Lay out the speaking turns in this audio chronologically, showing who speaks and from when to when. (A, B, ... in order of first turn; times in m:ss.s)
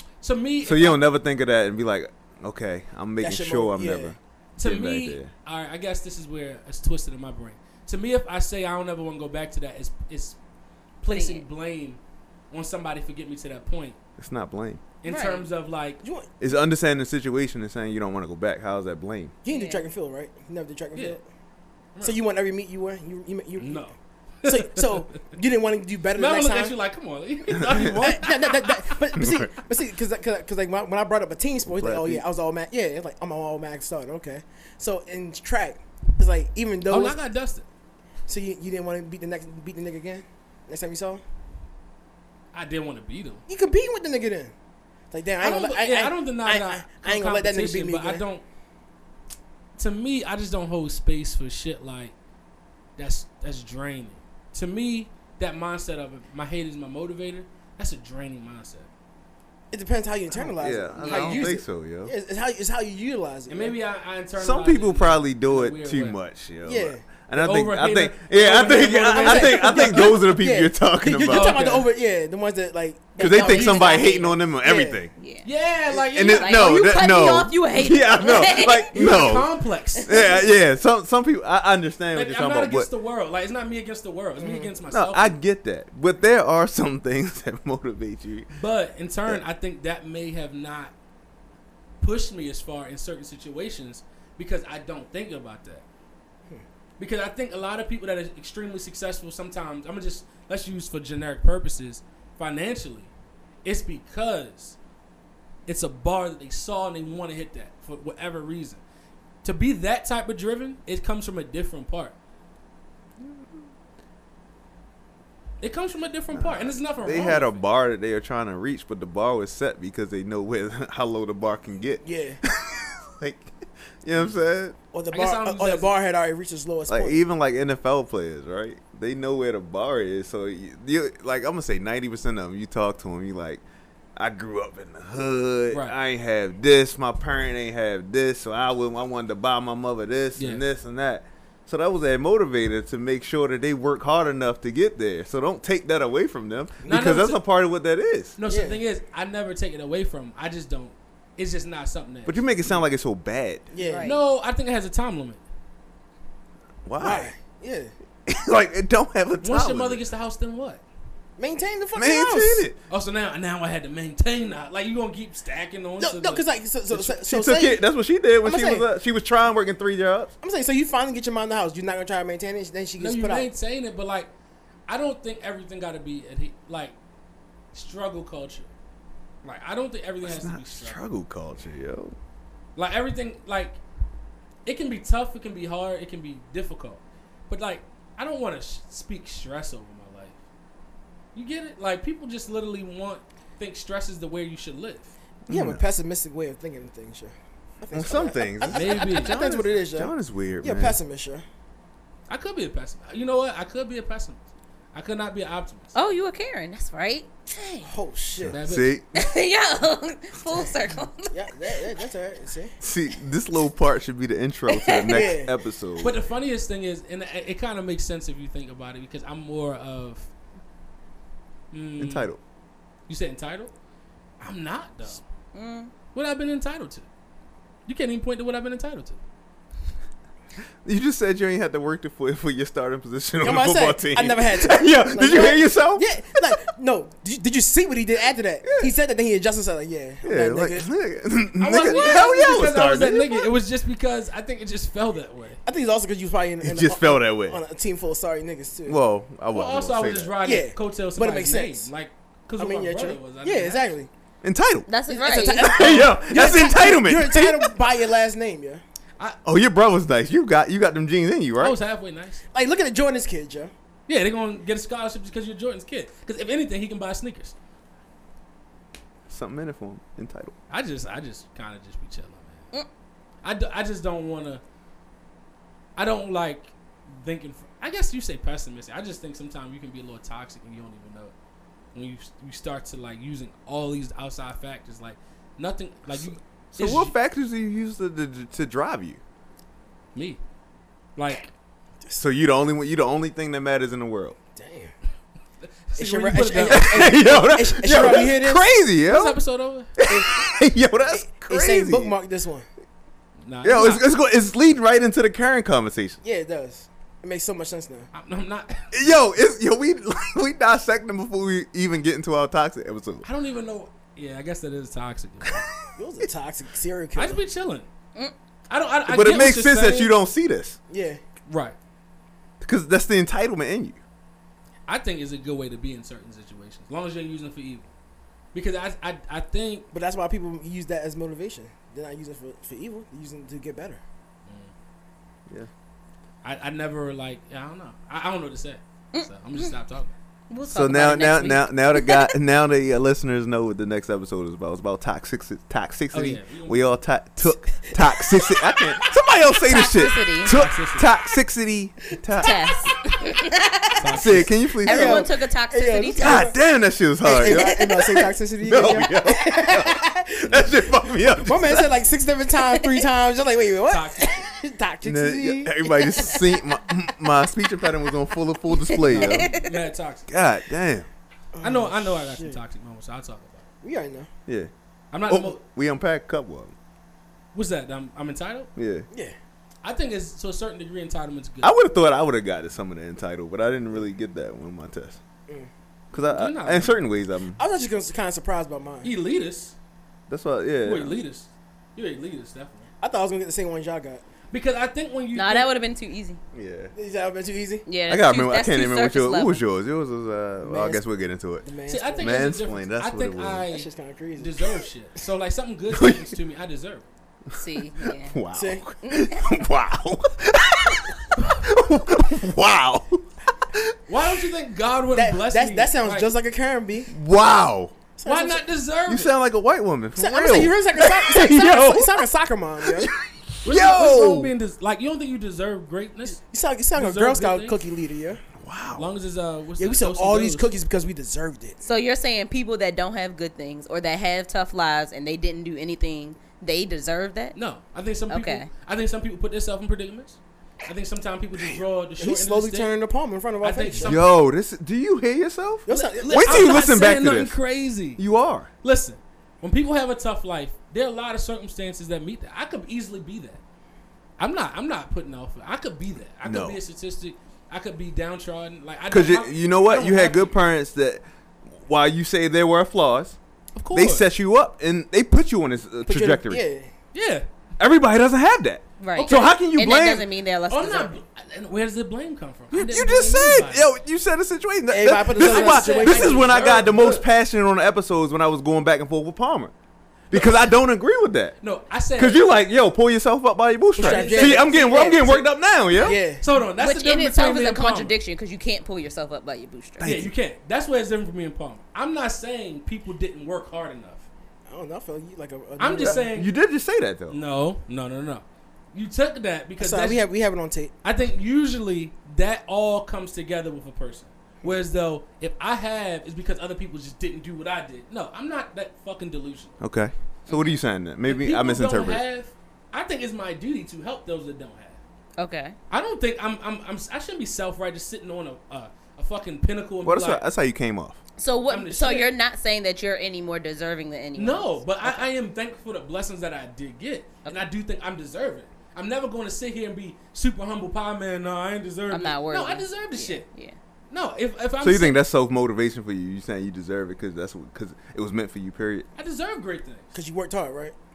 0:00.2-0:01.0 A
0:00.6-0:05.3 B
0:03.2-0:04.2 C
0:04.6-0:10.4 A
0:11.0-0:12.0 A
0:11.1-0:11.4 D
0:12.5-0:14.0 A
0:14.2-0:14.8 B
0:15.0-0:16.0 A
0:15.0-0:15.5 D
0:16.0-0:16.3 C
0:16.4-0:19.3 B
0:19.4-0:21.2 C
0:19.5-0:19.9 D
0:22.0-0:23.9 C
0:23.6-0:25.0 A
0:24.4-0:26.8 C
0:26.2-0:28.8 A
0:27.6-0:27.9 B
0:27.9-0:37.2 C
0:29.2-0:29.5 B
0:31.6-0:32.2 B
0:36.9-0:37.6 A
0:38.3-0:41.2 C
0:42.5-0:43.4 A
0:43.5-0:44.5 C
0:45.1-0:48.2 C
0:45.4-0:48.4 A
0:49.8-0:52.2 A
0:53.0-0:58.9 A
0:59.7-1:03.8 C
1:00.6-1:02.1 B
1:01.0-1:01.5 A
1:03.5-1:06.2 A
1:04.4-1:11.6 B
1:06.6-1:07.0 C
1:07.3-1:10.2 A
1:08.7-1:15.0 C
1:11.3-1:11.9 A
1:13.2-1:14.2 D
1:13.2-1:15.1 B
1:15.2-1:15.5 D
1:15.4-1:16.9 A
1:16.0-1:19.5 B
1:16.3-1:19.3 D
1:18.9-1:20.2 A
1:20.0-1:20.5 D
1:20.0-1:22.9 B
1:22.1-1:25.4 A
1:24.4-1:24.7 C
1:24.9-1:28.5 B
1:28.6-1:30.9 A
1:32.0-1:35.8 A
1:37.0-1:43.1 A
1:43.6-1:44.8 A
1:45.7-1:48.8 A
1:49.4-1:52.2 A
1:53.2-1:53.7 B
1:55.6-1:57.6 A
1:56.3-2:03.5 B
2:02.0-2:02.4 C
2:04.0-2:04.8 B
2:04.9-2:07.2 C
2:05.1-2:05.9 A
2:06.9-2:13.6 B
2:14.2-2:28.4 B
2:15.7-2:16.0 A
2:20.4-2:20.6 A
2:26.9-2:27.4 A
2:28.4-2:32.8 A
2:28.4-2:28.8 C
2:32.3-2:33.7 B
2:33.7-2:34.1 C
2:33.8-2:34.2 D
2:34.0-2:35.4 A
2:36.8-2:37.3 B
2:37.0-2:37.9 C
2:38.3-2:40.0 B
2:39.4-2:40.8 A
2:41.4-2:42.7 C
2:42.0-2:42.8 B
2:42.9-2:46.4 A
2:46.0-2:47.8 C
2:46.9-2:50.3 B
2:48.4-2:48.9 C
2:50.4-2:53.5 C
2:53.0-2:54.3 A
2:54.9-2:57.0 A
2:57.7-2:58.7 A
2:59.4-3:01.0 A
3:00.2-3:02.2 B
3:02.8-3:03.8 A
3:04.6-3:10.4 A
3:11.4-3:15.1 A
3:15.5-3:15.8 B
3:15.5-3:21.4 C
3:17.9-3:21.0 B
3:18.7-3:19.4 A
3:22.3-3:24.4 A
3:24.9-3:25.9 A
3:26.0-3:27.9 D
3:27.8-3:28.6 C
3:28.4-3:29.1 B
3:28.5-3:28.9 A
3:29.1-3:31.3 D
3:31.3-3:32.7 C
3:32.8-3:36.1 B
3:34.7-3:35.3 D
3:35.0-3:35.5 C
3:36.0-3:40.3 A
3:41.7-3:42.3 A
3:42.0-3:42.4 B
3:43.1-3:43.7 A
3:44.4-3:45.2 A
3:45.5-3:45.9 D
3:46.1-3:47.1 A
3:47.9-3:49.2 A
3:50.8-3:56.1 B
3:53.4-4:00.9 C
3:58.6-3:58.9 B
4:00.2-4:03.5 B
4:01.6-4:05.6 A
4:05.6-4:09.0 C
4:06.6-4:07.6 B
4:08.9-4:10.4 B
4:09.5-4:13.9 A
4:10.4-4:11.9 C
4:12.6-4:14.1 C
4:14.4-4:17.7 B
4:14.9-4:16.0 D
4:15.1-4:18.8 C
4:19.4-4:21.8 B
4:21.6-4:22.4 A
4:22.5-4:23.7 C
4:24.1-4:27.6 A
4:29.3-4:30.6 B
4:30.7-4:32.6 A
4:33.4-4:34.6 A
4:36.0-4:41.3 A
4:41.9-4:47.2 A
4:46.8-4:49.2 B
4:50.2-4:50.4 A
4:51.2-4:51.5 A
4:52.2-4:54.4 B
4:54.6-4:54.9 C
4:55.6-4:57.2 A
4:56.0-4:58.7 C
4:56.6-4:59.4 B
4:59.0-5:00.0 A
5:00.0-5:02.2 B
5:00.1-5:00.5 C
5:01.1-5:02.7 C
5:03.4-5:04.1 A
5:03.6-5:06.2 B
5:06.2-5:08.1 C
5:08.1-5:08.9 A
5:08.9-5:13.3 B
5:13.2-5:15.6 A
5:16.0-5:17.4 C
5:17.2-5:17.9 A
5:18.7-5:20.2 A
5:19.1-5:20.8 B
5:20.9-5:21.2 C
5:21.5-5:21.8 A
5:22.6-5:24.0 B
5:24.9-5:27.9 A
5:28.5-5:29.9 A
5:29.9-5:34.0 C
5:34.5-5:34.7 A
5:36.4-5:40.2 A
5:39.1-5:39.7 D
5:40.5-5:42.3 D
5:40.7-5:52.6 B
5:46.1-5:47.0 A
5:48.0-5:49.0 C
5:49.6-5:50.5 D
5:50.5-5:51.1 A
5:52.4-5:54.1 D
5:54.0-5:54.6 A
5:54.2-5:55.3 B
5:54.8-5:56.6 D
5:54.8-5:56.6 C
5:56.2-6:02.0 B
5:57.2-6:00.8 C
5:57.4-5:57.8 D
6:01.3-6:06.6 C
6:02.7-6:03.1 D
6:03.9-6:04.4 A
6:05.0-6:09.5 B
6:06.1-6:06.5 D
6:08.7-6:09.7 D
6:09.1-6:10.3 A
6:10.3-6:11.1 B
6:11.6-6:12.6 C
6:11.6-6:13.7 A
6:13.8-6:14.3 C
6:15.1-6:15.6 A
6:15.3-6:16.7 B
6:17.5-6:18.7 A
6:18.8-6:19.1 B
6:19.8-6:21.8 A
6:21.6-6:25.2 B
6:26.1-6:27.6 B
6:26.2-6:27.0 A
6:27.6-6:29.1 C
6:29.0-6:29.8 A
6:30.3-6:31.2 B
6:30.8-6:32.9 A
6:33.0-6:34.2 C
6:34.5-6:35.7 A
6:35.4-6:36.4 D
6:36.5-6:36.9 B
6:36.9-6:37.9 C
6:37.9-6:39.6 D
6:38.1-6:41.6 B
6:40.6-6:41.0 C
6:41.6-6:42.5 C
6:41.9-6:47.1 A
6:42.2-6:43.7 B
6:43.7-6:44.8 C
6:45.9-6:46.3 B
6:47.5-6:54.0 B
6:47.5-6:48.4 D
6:48.5-6:48.8 C
6:49.0-6:49.5 D
6:54.1-6:56.3 A
6:55.1-6:57.1 C
6:57.1-6:58.0 B
6:58.2-6:58.7 C
6:58.2-6:59.3 A
6:59.1-7:02.2 B
7:00.2-7:03.1 C
7:02.8-7:04.5 B
7:03.6-7:06.4 A
7:06.4-7:08.4 C
7:07.0-7:07.8 A
7:08.6-7:09.1 B
7:09.0-7:10.7 A
7:09.8-7:11.8 C
7:11.8-7:17.6 D
7:17.6-7:22.9 A
7:18.3-7:18.7 D
7:22.2-7:24.2 C
7:23.6-7:24.4 A
7:24.0-7:27.6 B
7:25.9-7:26.8 C
7:25.9-7:28.2 A
7:28.2-7:28.7 B
7:28.8-7:33.6 A
7:34.4-7:40.6 A
7:36.4-7:36.8 B
7:39.1-7:43.4 B
7:43.8-7:44.3 A
7:43.9-7:46.6 B
7:46.1-7:46.9 C
7:47.1-7:47.5 A
7:47.8-7:50.3 B
7:49.0-7:51.2 D
7:49.2-7:49.5 A
7:50.7-7:53.9 A
7:52.7-7:59.7 B
7:54.9-7:56.7 C
7:55.4-7:57.2 A
8:00.3-8:01.6 B
8:01.6-8:02.4 A
8:02.2-8:06.2 B
8:04.0-8:05.4 C
8:04.0-8:05.4 A
8:06.0-8:06.4 C
8:06.4-8:08.2 A
8:06.8-8:10.1 D
8:10.0-8:10.3 B
8:10.0-8:14.3 A
8:14.7-8:16.3 C
8:15.8-8:16.5 A
8:16.0-8:17.4 B
8:17.3-8:20.2 A
8:19.8-8:20.9 C
8:21.0-8:29.8 A
8:29.8-8:32.2 B
8:30.5-8:30.8 D
8:31.3-8:35.0 A
8:35.4-8:35.8 D
8:35.9-8:40.4 A
8:40.0-8:41.2 B
8:41.4-8:45.2 D
8:41.7-8:42.3 A
8:44.4-8:53.5 A
8:52.1-8:53.8 D
8:54.1-8:55.2 A
8:54.8-8:59.1 B
8:59.2-9:00.1 A
9:00.1-9:01.0 C